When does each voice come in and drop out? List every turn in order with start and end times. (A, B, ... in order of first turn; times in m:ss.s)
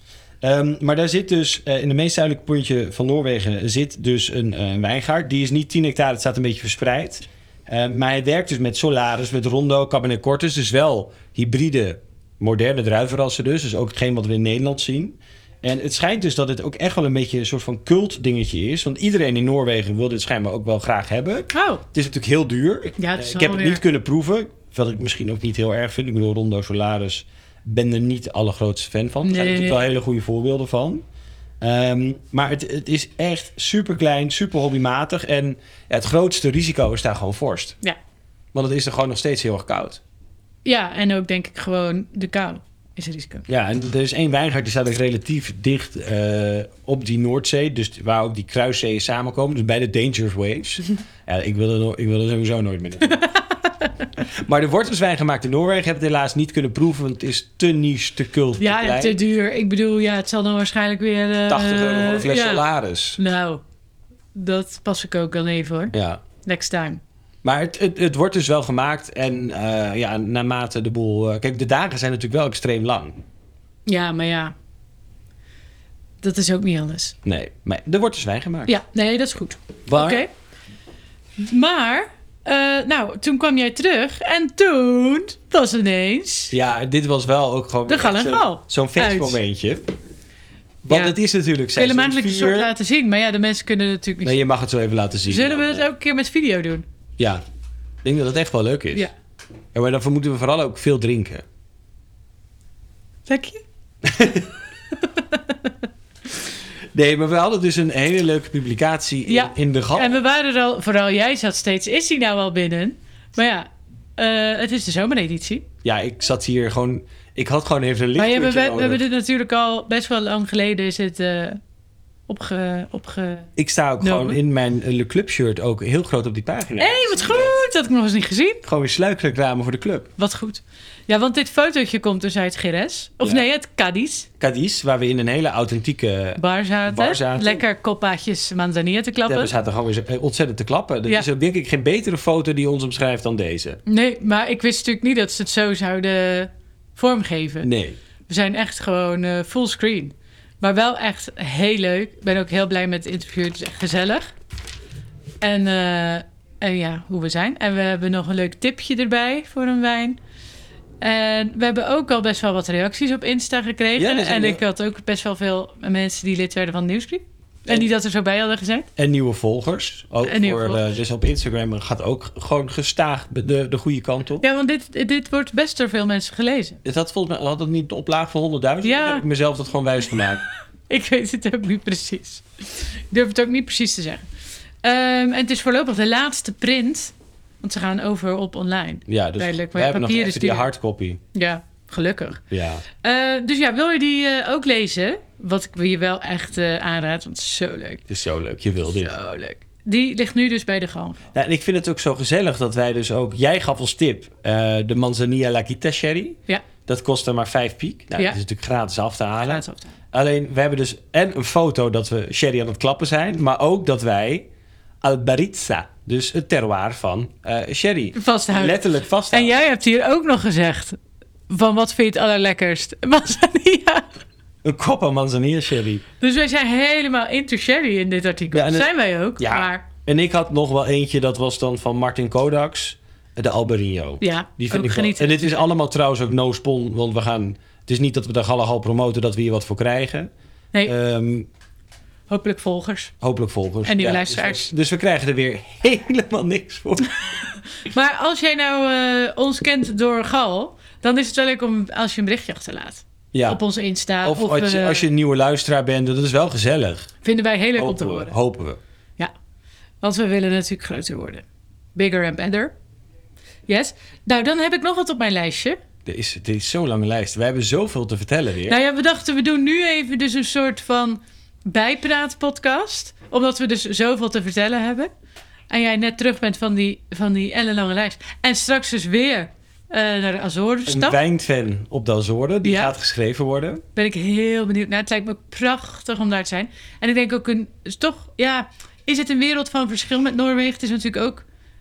0:00.4-0:31.0 A
0:21.5-0:21.8 B
0:23.0-0:23.8 B
0:29.2-0:29.8 B
0:31.6-0:37.8 A
0:38.5-0:40.0 A
0:40.6-0:43.4 B
0:43.5-0:53.2 A
0:53.2-0:53.9 B
0:54.2-0:59.2 A
0:58.6-1:02.6 B
1:01.5-1:03.2 A
1:03.2-1:03.6 B
1:04.3-1:07.0 B
1:05.9-1:06.2 A
1:07.4-1:13.2 A
1:13.9-1:14.5 B
1:16.2-1:17.2 B
1:17.2-1:18.7 A
1:18.6-1:20.3 B
1:19.9-1:20.2 A
1:21.4-1:26.5 B
1:26.5-1:29.9 A
1:27.9-1:29.4 B
1:30.8-1:32.7 A
1:30.9-1:31.2 B
1:31.7-1:34.4 B
1:34.2-1:35.8 A
1:35.2-1:36.8 B
1:38.0-1:39.1 A
1:39.7-1:41.4 A
1:43.2-1:43.6 B
1:44.0-1:44.5 A
1:45.0-1:45.7 B
1:46.9-1:50.2 A
1:49.2-1:55.6 B
1:55.8-1:59.0 A
1:58.2-2:01.6 B
2:02.3-2:03.5 B
2:03.6-2:07.6 A
2:04.0-2:04.4 B
2:06.8-2:08.6 B
2:08.6-2:10.1 A
2:10.2-2:14.3 B
2:14.4-2:17.6 A
2:16.4-2:19.5 B
2:19.2-2:23.8 A
2:23.9-2:27.7 B
2:27.6-2:28.0 A
2:28.3-2:34.3 B
2:35.4-2:40.2 B
2:41.0-2:48.9 B
2:44.0-2:44.6 A
2:49.0-2:54.4 A
2:50.2-2:50.8 B
2:54.4-2:56.8 B
2:56.8-3:00.4 A
2:58.8-2:59.2 B
3:00.9-3:04.2 B
3:04.8-3:10.7 B
3:09.1-3:11.2 A
3:11.3-3:18.0 B
3:12.5-3:12.8 A
3:18.1-3:19.1 A
3:19.0-3:21.3 B
3:21.3-3:34.5 A
3:29.4-3:29.9 B
3:35.0-3:39.6 A
3:38.1-3:41.0 B
3:41.5-3:44.1 B
3:44.6-3:46.0 A
3:46.2-3:49.8 B
3:48.5-4:00.3 A
3:54.2-3:55.7 B
4:00.8-4:01.5 A
4:02.3-4:03.1 B
4:03.2-4:07.1 A
4:03.8-4:04.7 B
4:07.8-4:15.1 B
4:13.3-4:13.6 A
4:14.2-4:17.1 A
4:17.2-4:18.4 B
4:17.8-4:18.8 A
4:20.0-4:21.4 B
4:21.9-4:22.7 B
4:23.7-4:25.8 B
4:26.0-4:28.8 A
4:28.6-4:35.1 B
4:35.7-4:41.2 B
4:40.9-4:43.8 A
4:42.6-4:42.9 B
4:43.9-4:51.4 B